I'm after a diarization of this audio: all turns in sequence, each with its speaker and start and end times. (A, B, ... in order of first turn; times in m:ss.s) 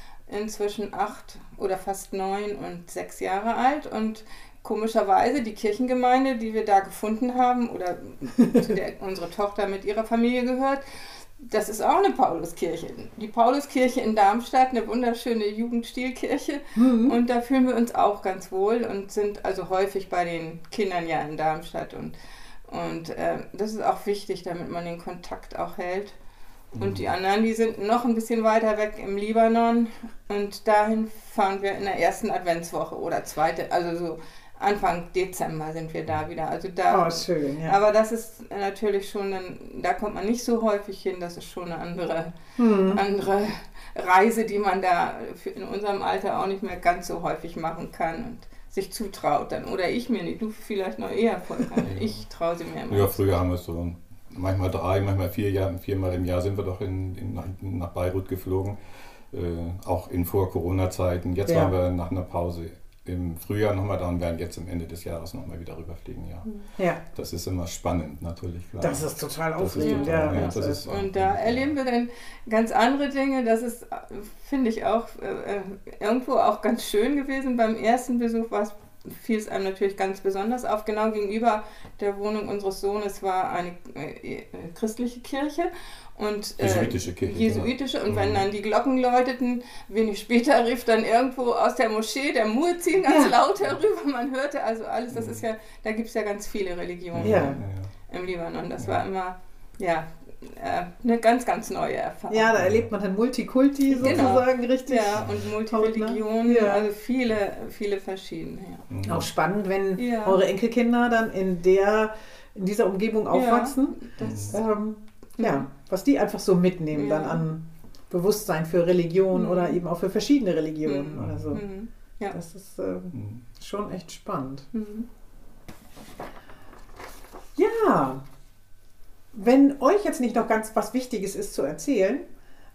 0:00.3-0:10.8 A
0:11.4-0:22.1 A
0:16.7-0:17.2 B
0:22.7-0:26.2 A
0:26.8-0:27.0 C
0:26.8-0:42.3 A
0:36.9-0:37.8 B
0:42.6-0:43.0 B
0:42.9-0:53.2 A
0:51.8-0:52.2 C
0:52.9-0:58.8 C
0:59.3-1:06.5 C
1:01.4-1:01.7 B
1:07.1-1:11.7 C
1:08.8-1:10.8 B
1:09.8-1:42.5 A
1:26.6-1:28.4 C
1:33.0-1:33.3 B
1:35.1-1:35.4 C
1:37.1-1:37.9 C
1:37.2-1:37.6 B
1:42.3-1:46.8 B
1:42.6-1:42.9 C
1:43.9-1:48.8 A
1:44.0-1:44.4 C
1:48.9-1:49.3 C
1:49.0-2:01.6 B
1:50.0-1:50.4 A
1:53.3-1:54.6 A
1:54.2-1:54.6 C
1:55.4-1:55.6 A
1:56.9-1:57.4 A
1:59.3-1:59.8 A
2:00.8-2:02.4 A
2:01.1-2:01.6 C
2:02.3-2:04.7 B
2:03.1-2:03.4 C
2:04.7-2:05.1 A
2:07.6-2:08.2 B
2:09.3-2:12.2 B